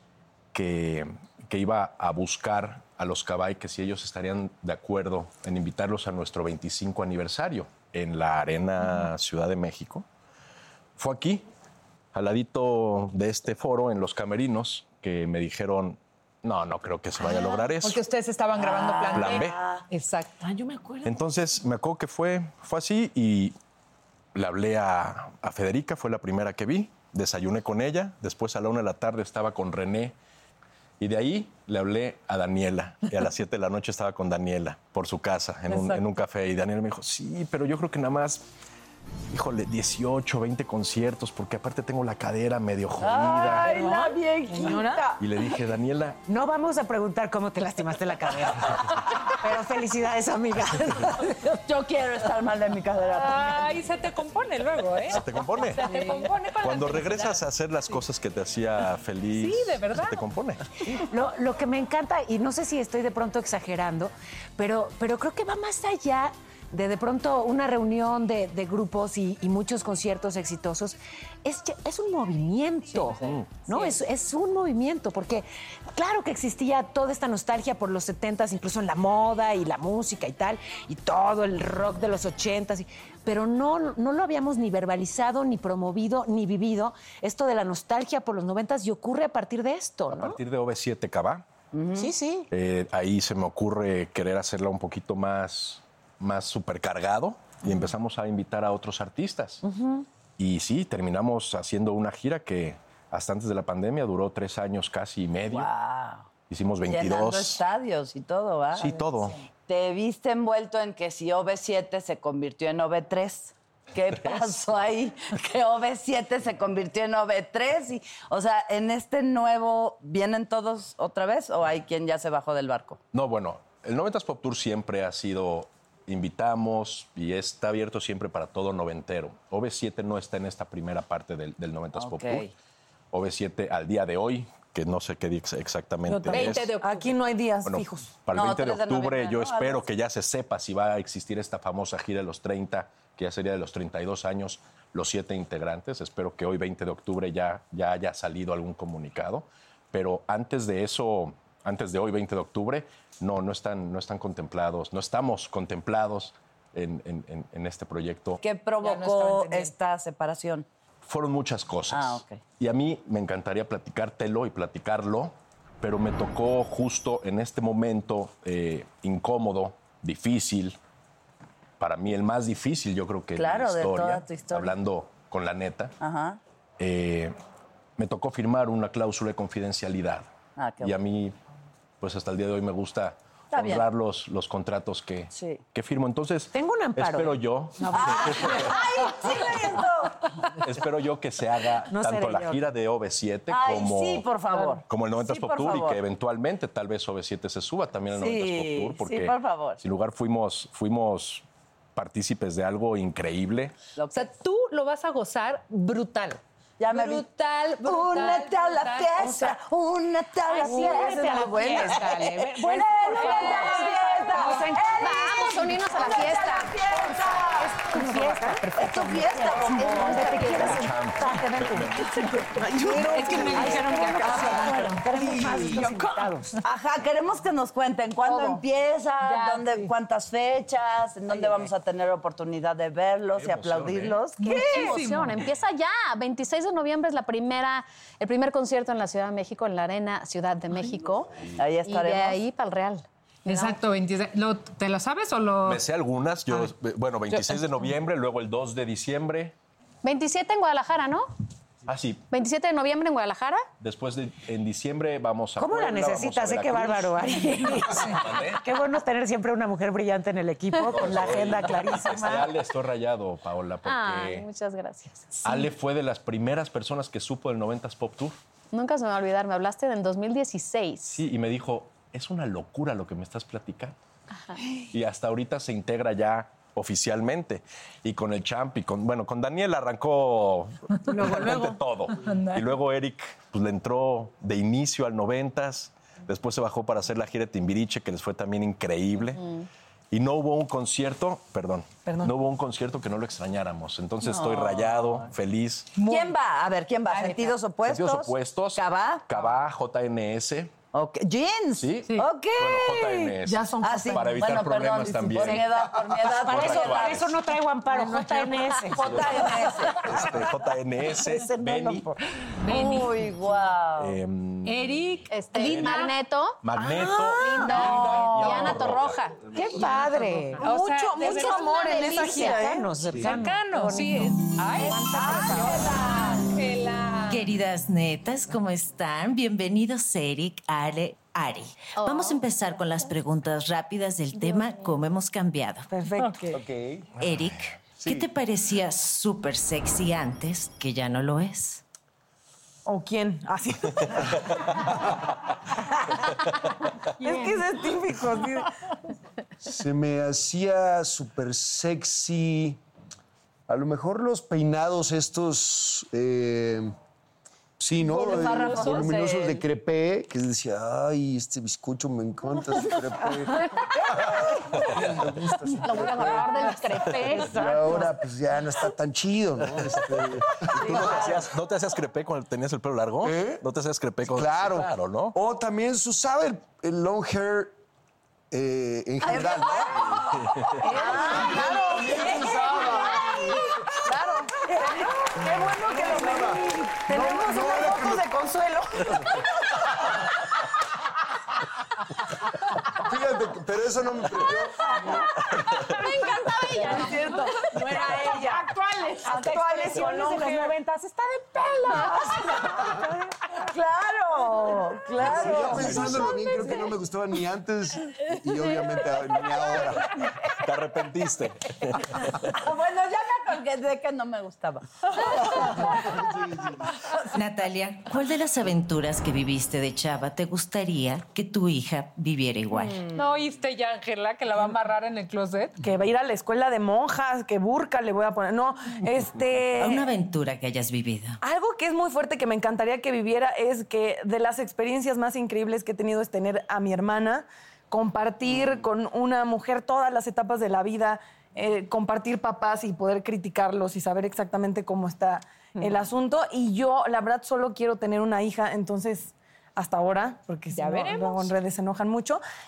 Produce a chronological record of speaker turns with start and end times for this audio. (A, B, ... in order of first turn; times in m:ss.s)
0:00.5-0:10.1 A
0:11.0-0:11.4 A
0:12.1-0:18.0 A
0:17.3-0:20.4 B
0:18.6-0:19.8 C
0:19.1-0:19.6 A
0:20.4-0:21.1 D
0:21.0-0:23.6 A
0:24.4-0:30.1 A
0:31.0-0:38.4 A
0:39.3-0:43.7 A
0:43.0-0:45.3 C
0:43.5-0:45.0 D
0:45.2-0:46.2 A
0:46.3-0:51.4 E
0:51.5-0:53.7 C
0:53.1-0:58.0 B
0:55.1-0:55.9 A
0:56.6-1:00.6 A
0:59.3-1:00.2 B
1:00.9-1:30.4 E
1:13.2-1:13.6 A
1:13.7-1:14.0 B
1:30.1-1:31.4 A
1:31.7-1:32.1 C
1:31.9-1:32.5 E
1:32.5-1:39.6 A
1:39.6-1:40.0 E
1:40.4-1:45.7 A
1:45.5-1:46.3 C
1:46.5-1:47.6 A
1:46.9-2:03.0 C
1:48.7-1:49.4 A
1:54.1-1:54.5 A
2:03.1-2:12.5 A
2:11.9-2:12.5 C
2:13.1-2:16.7 A
2:16.1-2:18.1 D
2:16.2-2:17.2 B
2:17.6-2:38.4 A
2:18.3-2:19.9 C
2:38.4-2:40.7 C
2:38.8-2:39.7 B
2:41.0-2:50.8 A
2:41.9-2:42.4 C
2:51.8-2:55.9 A
2:53.4-2:54.8 C
2:56.0-2:56.4 C
2:56.8-2:57.4 A
2:58.0-3:01.3 A
3:00.6-3:01.0 C
3:02.0-3:08.8 A
3:03.5-3:03.9 C
3:05.3-3:05.6 C
3:06.5-3:08.2 E
3:07.8-3:10.2 C
3:10.6-3:23.8 A
3:11.8-3:12.6 E
3:13.5-3:16.0 C
3:18.1-3:19.8 C
3:24.0-3:24.3 C
3:24.1-3:29.5 B
3:26.8-3:27.2 C
3:27.8-3:37.8 C
3:30.5-3:34.9 E
3:30.6-3:32.2 D
3:33.1-3:34.8 B
3:35.0-3:36.8 F
3:37.5-3:42.0 E
3:37.9-3:38.6 D
3:38.8-3:40.8 C
3:40.1-3:40.5 F
3:40.6-3:41.9 A
3:41.9-3:43.8 C
3:42.7-3:46.2 D
3:42.8-3:45.1 B
3:42.9-3:46.6 E
3:46.6-3:55.0 C
3:48.2-3:48.6 D
3:49.2-3:49.9 B
3:53.3-3:54.2 A
3:54.4-3:55.4 B
3:54.4-4:03.8 F
4:01.6-4:02.4 C
4:03.4-4:05.8 B
4:05.6-4:09.5 A
4:06.5-4:06.7 B
4:07.3-4:07.9 B
4:10.0-4:11.3 F
4:11.8-4:12.2 A
4:12.3-4:13.6 F
4:13.8-4:18.6 A
4:15.6-4:22.5 E
4:17.8-4:18.2 B
4:20.9-4:24.5 A
4:23.8-4:25.3 F
4:25.4-4:25.7 B
4:25.4-4:28.4 A
4:28.7-4:31.2 F
4:31.1-4:34.0 A
4:34.9-4:49.4 A
4:41.1-4:41.8 D
4:42.1-4:42.8 B
4:49.4-4:49.6 F
4:50.1-4:55.9 A
4:52.1-4:52.4 D
4:54.2-4:55.3 C
4:55.9-4:56.3 B
4:56.0-4:59.4 C
4:57.2-4:57.5 B
4:57.8-5:00.8 A
5:00.9-5:07.3 C
5:01.8-5:07.4 A
5:03.4-5:05.7 D
5:06.2-5:09.2 E
5:07.9-5:09.8 D
5:08.8-5:10.5 C
5:09.0-5:09.4 A
5:10.0-5:12.1 A
5:11.0-5:14.2 C
5:12.6-5:13.2 B
5:14.0-5:14.9 A
5:14.6-5:16.2 B
5:15.3-5:16.6 F
5:15.6-5:15.9 A
5:16.6-5:19.2 A
5:16.8-5:18.8 C
5:17.4-5:19.4 F
5:17.5-5:18.8 B
5:19.5-5:20.6 E
5:19.8-5:27.5 B
5:20.6-5:22.9 D
5:21.2-5:22.6 F
5:22.2-5:25.8 E
5:24.8-5:25.6 F
5:25.2-5:26.4 C
5:27.3-5:35.9 G
5:32.0-5:32.4 F
5:34.4-5:34.9 F
5:35.9-5:36.6 D
5:36.2-5:36.6 B
5:36.5-5:37.1 H
5:37.2-5:41.8 G
5:37.2-5:37.9 A
5:42.8-5:44.5 D
5:47.2-5:48.6 D
5:47.2-5:47.6 B
5:49.6-5:52.8 H
5:53.7-5:56.9 H
5:57.8-6:06.6 H
5:58.0-5:59.6 C
5:58.4-5:58.8 D
6:05.8-6:07.5 F
6:07.2-6:08.1 E
6:07.4-6:11.5 H
6:10.7-6:11.4 C
6:10.9-6:15.4 A
6:13.2-6:13.6 H
6:14.3-6:17.8 H
6:18.5-6:20.3 H
6:19.2-6:23.6 C
6:20.3-6:21.0 A
6:20.9-6:29.8 D
6:21.1-6:23.6 H
6:24.7-6:25.2 C
6:25.4-6:28.4 H
6:27.1-6:27.9 E
6:33.0-6:34.9 H
6:34.9-6:35.3 D
6:35.1-6:39.5 B
6:35.9-6:40.8 D
6:39.3-6:43.4 E
6:41.8-6:42.9 D
6:43.6-6:46.3 C
6:45.2-6:46.3 A
6:45.3-6:50.1 H
6:50.6-6:52.5 A
6:52.2-6:56.1 C
6:55.2-6:56.0 B
6:56.1-6:56.8 H
6:57.3-7:03.0 G
7:02.7-7:03.3 C
7:03.1-7:05.8 B
7:05.8-7:10.1 D
7:09.8-7:11.4 G
7:11.4-7:32.4 D
7:30.7-7:31.5 B